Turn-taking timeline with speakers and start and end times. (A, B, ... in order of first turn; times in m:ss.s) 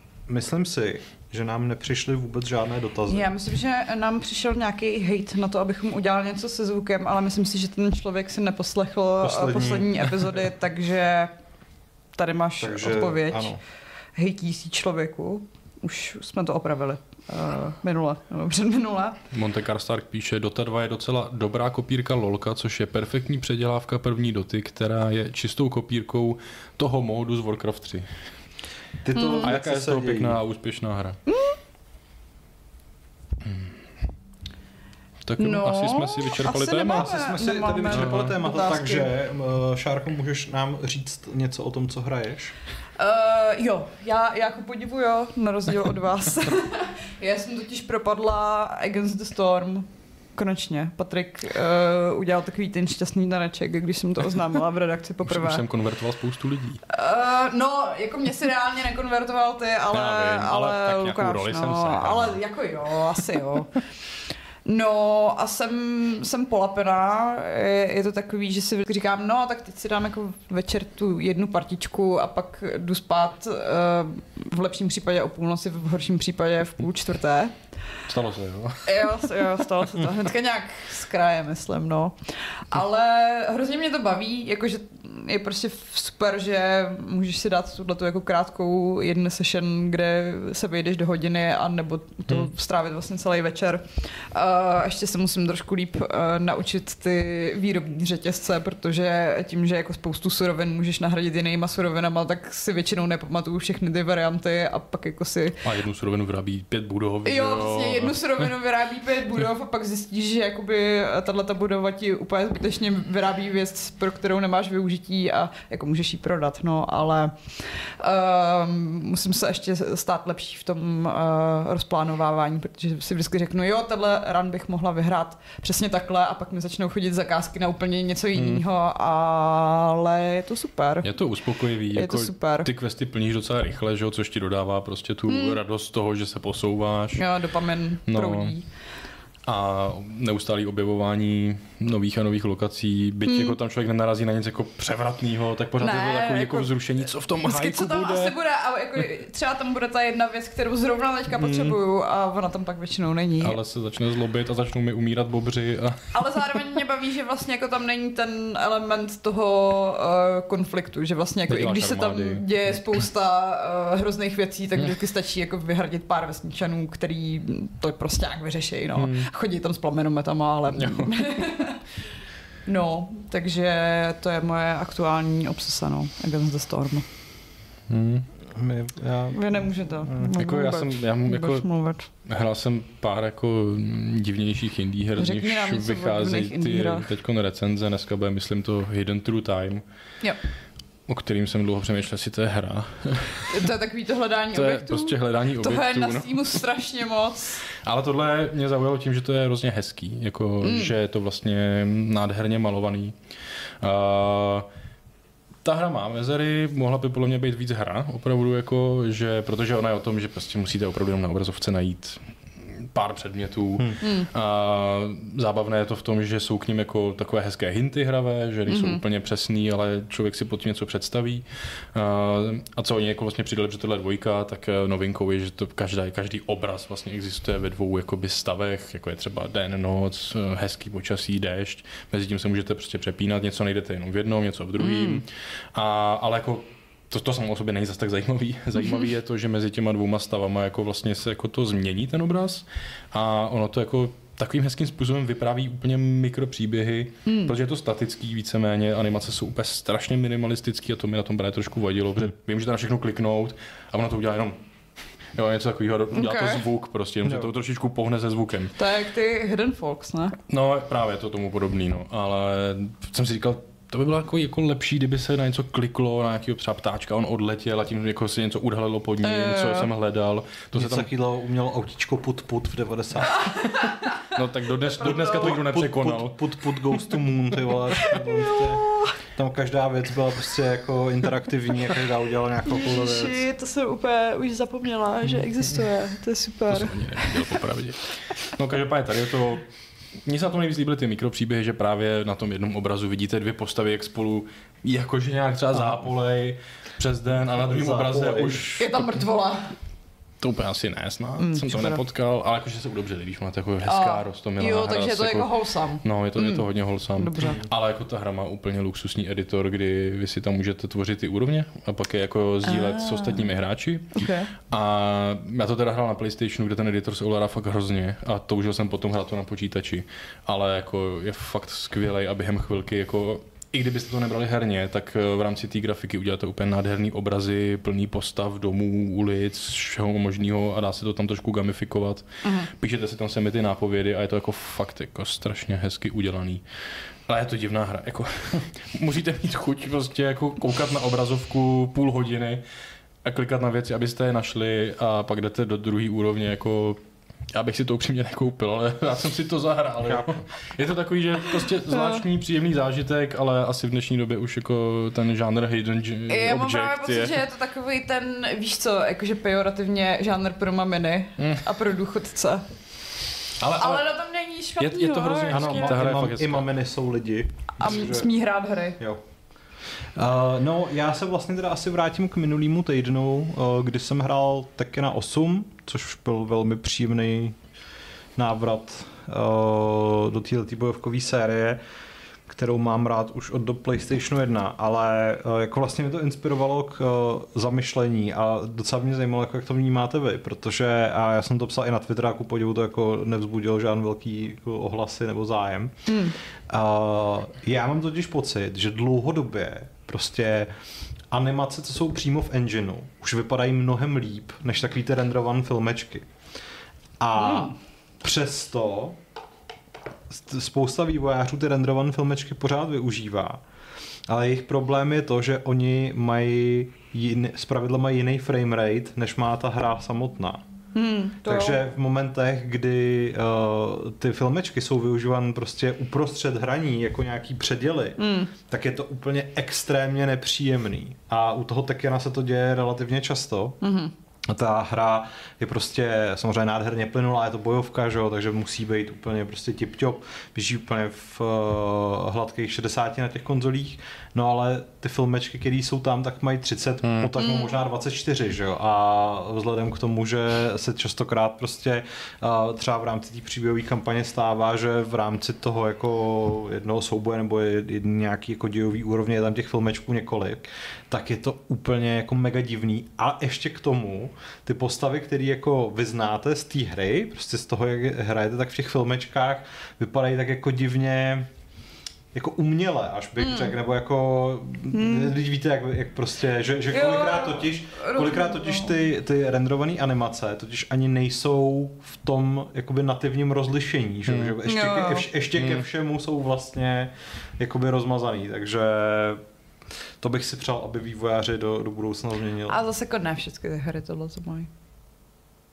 0:00.3-0:03.3 A
0:03.1-0:11.3 B
0:09.2-0:10.3 A
0:12.2-0:13.5 B
0:12.6-0:13.6 A
0:14.2-0:19.2 B
0:19.3-0:28.3 C
0:29.0-0:30.4 A
0:29.2-0:29.5 B
0:29.3-0:31.2 C
0:31.3-0:31.6 B
0:33.4-0:33.8 C
0:35.3-0:37.1 C
0:35.4-0:39.1 B
0:36.9-0:42.6 A
0:37.9-0:38.3 C
0:43.0-0:55.6 B
0:55.2-0:56.8 C
0:56.9-1:03.8 B
0:59.9-1:02.4 C
1:04.6-1:17.6 B
1:18.1-1:19.6 C
1:18.8-1:45.6 B
1:45.6-1:48.5 C
1:47.2-2:11.1 B
2:08.4-2:08.6 C
2:11.0-2:17.3 C
2:11.9-2:12.7 B
2:15.3-2:15.6 B
2:17.2-2:18.6 B
2:18.1-2:18.6 C
2:19.5-2:28.3 C
2:23.3-2:23.6 B
2:25.8-2:26.7 B
2:27.4-2:33.6 B
2:31.4-2:31.8 C
2:33.4-2:36.1 C
2:36.1-2:51.8 B
2:41.5-2:42.4 C
2:49.0-2:49.3 C
2:50.7-2:51.4 C
2:52.6-2:57.1 B
2:57.9-2:58.3 C
2:58.5-3:00.3 A
2:59.3-3:02.1 B
3:00.4-3:09.8 C
3:05.2-3:07.1 B
3:11.1-3:13.7 C
3:13.5-3:17.6 B
3:14.5-3:16.6 C
3:17.8-3:23.2 C
3:20.6-3:20.9 B
3:23.8-3:24.7 C
3:25.6-4:14.6 C
3:34.0-3:34.3 B
3:38.7-3:39.0 B
3:54.8-3:55.2 B
3:58.8-3:59.1 B
4:07.3-4:07.6 B
4:15.3-4:18.8 C
4:16.1-4:16.6 B
4:17.2-4:17.5 A
4:18.8-4:20.4 B
4:20.5-4:31.1 C
4:29.2-4:29.9 B
4:30.8-4:33.5 A
4:33.3-4:34.2 B
4:34.3-4:36.4 C
4:35.0-4:43.4 A
4:35.0-4:35.6 B
4:38.0-4:39.2 B
4:42.6-4:47.5 B
4:46.7-4:49.6 C
4:50.2-4:59.2 C
4:57.7-4:58.7 A
4:58.8-4:59.7 B
5:00.4-5:36.6 C
5:01.4-5:02.0 B
5:03.9-5:07.6 B
5:12.6-5:13.5 B
5:14.1-5:14.5 B
5:32.4-5:32.7 B
5:37.3-5:42.6 C
5:43.2-5:47.0 C
5:47.5-5:57.4 C
5:50.0-5:50.3 A
5:51.9-5:52.2 B
5:56.3-6:02.7 B
6:01.4-6:01.7 C
6:03.6-6:04.1 C
6:03.7-6:06.0 B
6:04.8-6:06.7 C
6:05.5-6:08.3 A
6:07.8-6:09.0 B
6:10.2-6:17.6 A
6:18.4-6:21.8 A
6:22.5-6:36.1 A
6:36.1-6:36.4 B
6:36.7-6:40.7 A
6:41.3-6:46.3 A
6:47.2-6:49.2 A
6:47.4-6:47.8 B
6:50.3-6:53.6 A
6:54.3-7:00.6 A
7:01.0-7:01.8 B
7:01.4-7:13.8 A
7:08.2-7:08.5 B
7:13.8-7:14.1 B
7:14.5-7:51.5 A
7:27.0-7:27.4 C
7:27.4-7:27.8 B
7:52.3-8:09.4 A
7:53.4-7:53.7 B
7:54.9-7:55.3 B
7:56.9-7:59.0 B
8:04.3-8:04.6 C
8:04.6-8:05.3 B
8:05.6-8:05.9 C
8:10.2-8:12.8 A
8:12.7-8:14.7 B